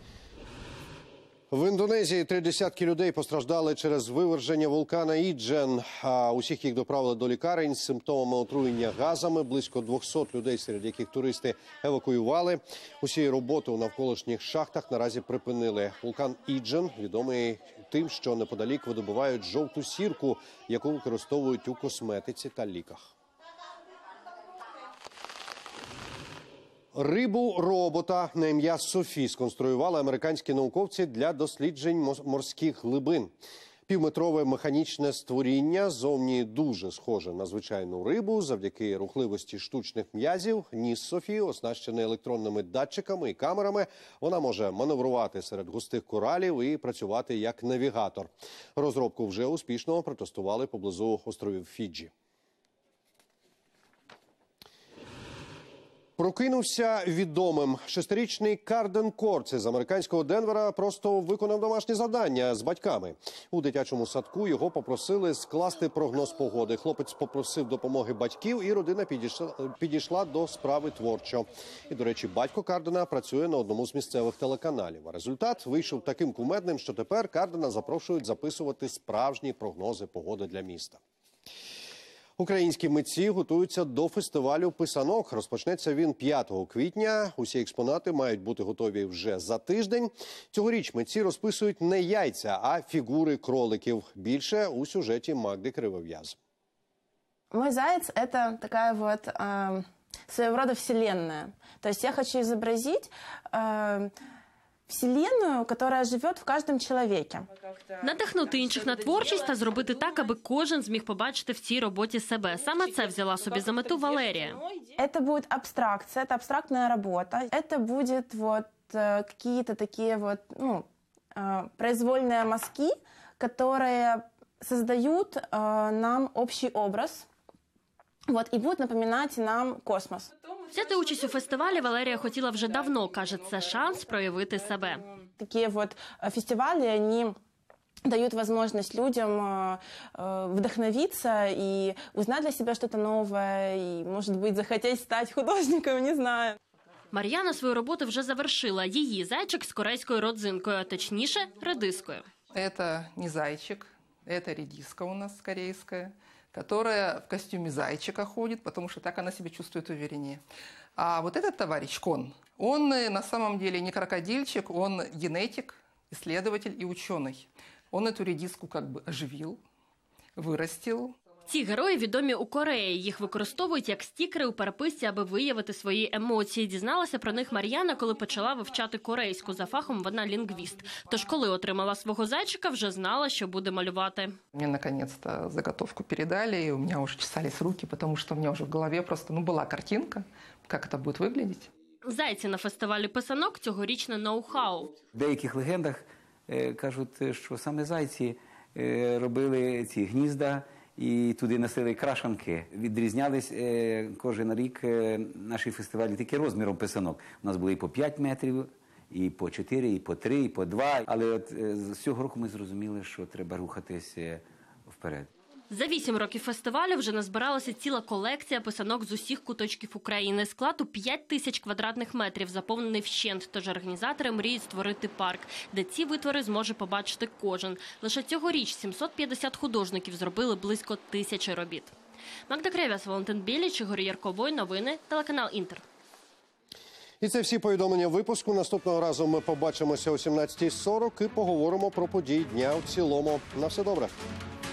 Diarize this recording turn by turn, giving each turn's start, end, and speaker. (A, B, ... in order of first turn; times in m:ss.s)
0:01.5-0:23.1 A
0:26.9-0:33.3 A
0:33.9-0:52.1 A
0:56.2-1:21.0 A
1:22.4-1:36.4 A
1:37.5-1:44.1 B
1:44.9-1:47.5 B
1:48.0-1:54.6 C
1:55.0-2:07.3 B
2:08.3-2:10.3 B
2:10.7-2:15.0 C
2:15.4-2:17.4 B
2:18.0-2:26.6 B
2:27.1-2:32.2 C
2:32.5-2:40.4 D
2:41.0-2:49.6 D
2:50.4-2:51.2 D
2:51.5-3:04.4 C
3:04.5-3:11.7 D
3:12.0-3:14.9 C
3:15.1-3:35.3 E
3:35.7-3:51.9 C
3:52.5-3:55.8 C
3:57.2-4:04.2 A